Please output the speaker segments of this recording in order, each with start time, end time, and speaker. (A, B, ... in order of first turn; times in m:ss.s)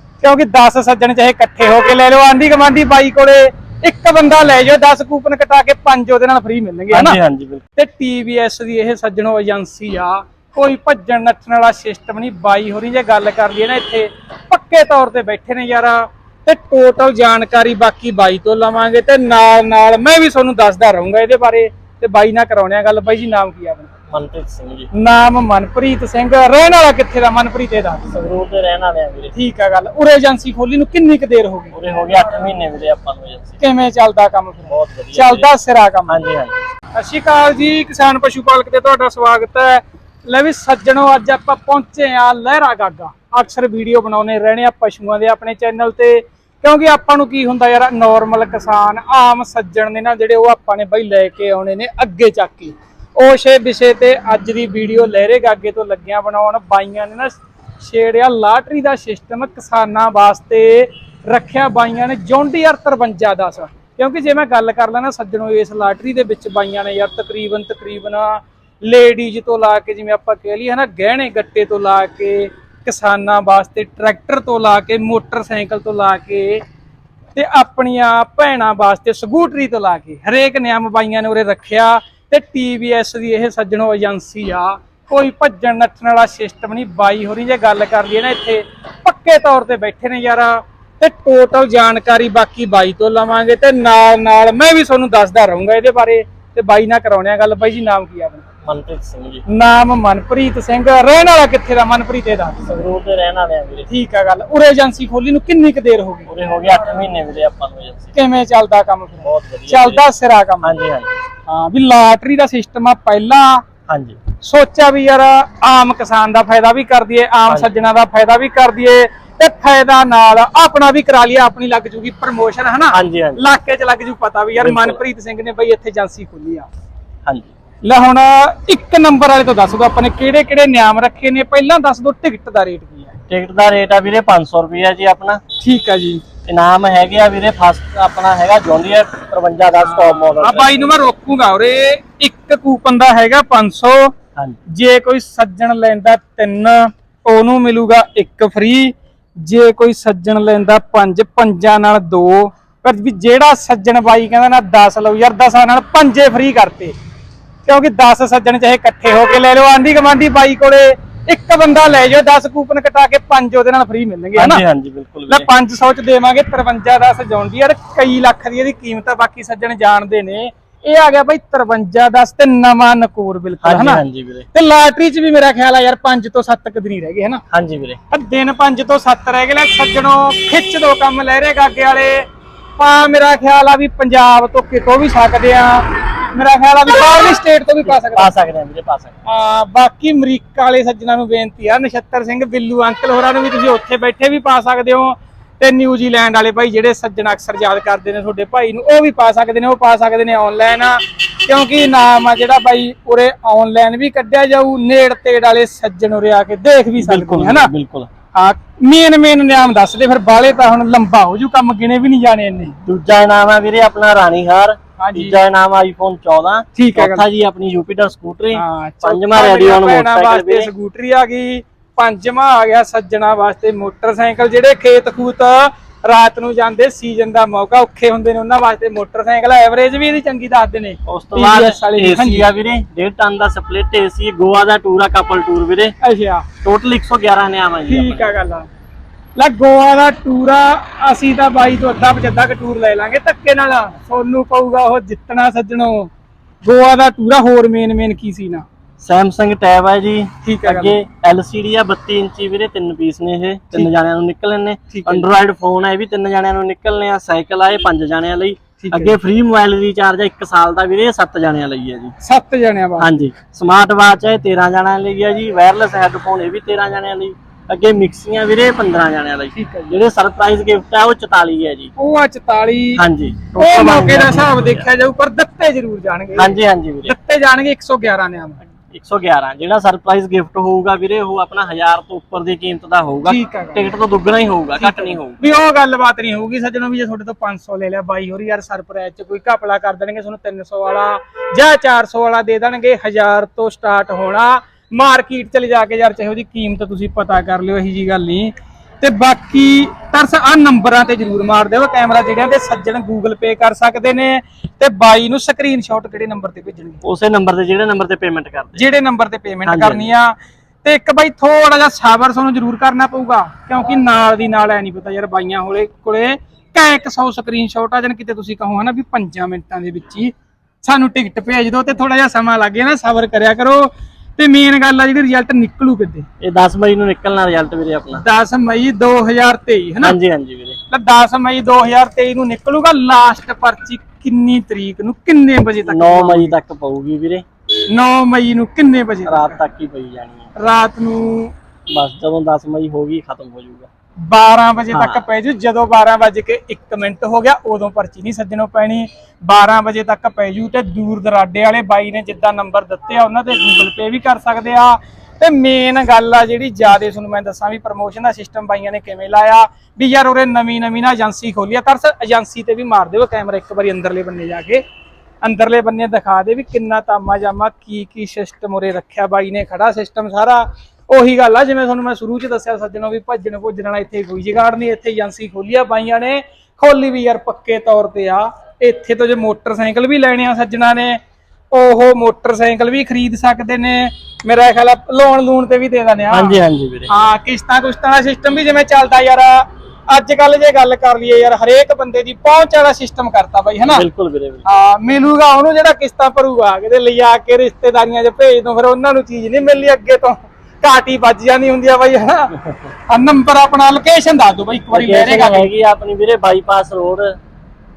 0:00.2-0:07.2 A
0:06.9-0:07.6 B
0:07.8-0:23.9 A
0:24.1-0:24.9 B
0:24.9-0:28.2 A
0:28.1-0:29.3 B
0:29.3-0:31.8 A
0:31.7-0:33.6 B
0:33.6-0:36.2 A
0:34.7-0:35.5 B
0:36.1-0:36.6 B
0:37.0-1:16.6 A
1:17.4-1:38.5 A
1:38.6-1:39.4 B
1:39.5-1:42.7 A
1:42.7-1:43.9 B
1:43.9-1:46.3 A
1:46.3-1:48.1 B
1:48.1-1:50.7 A
1:49.2-1:50.0 B
1:50.6-1:51.1 B
1:51.5-1:53.6 A
1:53.9-1:54.2 B
1:54.4-2:06.7 A
2:02.9-2:03.4 B
2:04.6-2:05.0 B
2:07.3-2:07.5 B
2:07.8-2:13.2 A
2:13.3-2:15.4 B
2:15.6-2:16.2 A
2:16.5-2:20.8 B
2:19.8-2:24.1 A
2:24.7-2:36.9 A
2:37.7-2:44.6 A
2:44.4-2:45.5 B
2:45.3-2:54.0 A
2:53.6-2:54.5 B
2:54.5-2:57.4 A
2:57.5-2:58.0 B
2:58.1-3:02.3 A
3:02.8-3:08.3 A
3:07.8-3:09.1 B
3:09.3-3:27.7 A
3:27.0-3:28.1 B
3:28.4-3:32.8 A
3:32.8-3:40.7 B
3:35.0-3:35.4 A
3:36.8-3:37.2 A
3:38.5-3:52.5 A
3:51.1-3:56.0 B
3:56.0-3:56.5 A
3:56.6-3:58.4 B
3:57.9-3:58.7 A
3:59.4-4:06.1 A
4:06.6-4:08.6 A
4:09.0-4:22.2 B
4:10.4-4:11.0 A
4:14.9-4:15.3 A
4:18.8-4:19.1 A
4:22.2-4:23.2 A
4:23.0-4:31.9 B
4:29.6-4:30.0 A
4:32.0-4:33.0 A
4:33.0-4:34.9 B
4:33.6-4:36.5 A
4:36.4-4:37.2 B
4:37.0-4:38.6 A
4:38.9-4:45.4 B
4:43.2-4:43.9 A
4:44.8-5:07.0 A
5:07.0-5:08.8 B
5:08.8-5:26.3 A
5:09.7-5:10.1 B
5:26.4-5:28.2 B
5:28.2-5:30.2 A
5:30.0-5:30.8 B
5:30.9-5:36.6 A
5:35.9-5:37.4 B
5:37.9-5:39.6 A
5:39.3-5:40.5 B
5:40.6-5:41.5 A
5:41.9-5:43.9 B
5:44.3-6:04.8 A
5:44.9-5:45.2 B
6:05.4-6:21.2 A
6:21.7-6:26.6 A
6:26.3-6:27.1 B
6:27.1-6:34.1 A
6:33.9-6:34.6 B
6:34.6-6:45.7 A
6:44.9-6:47.4 B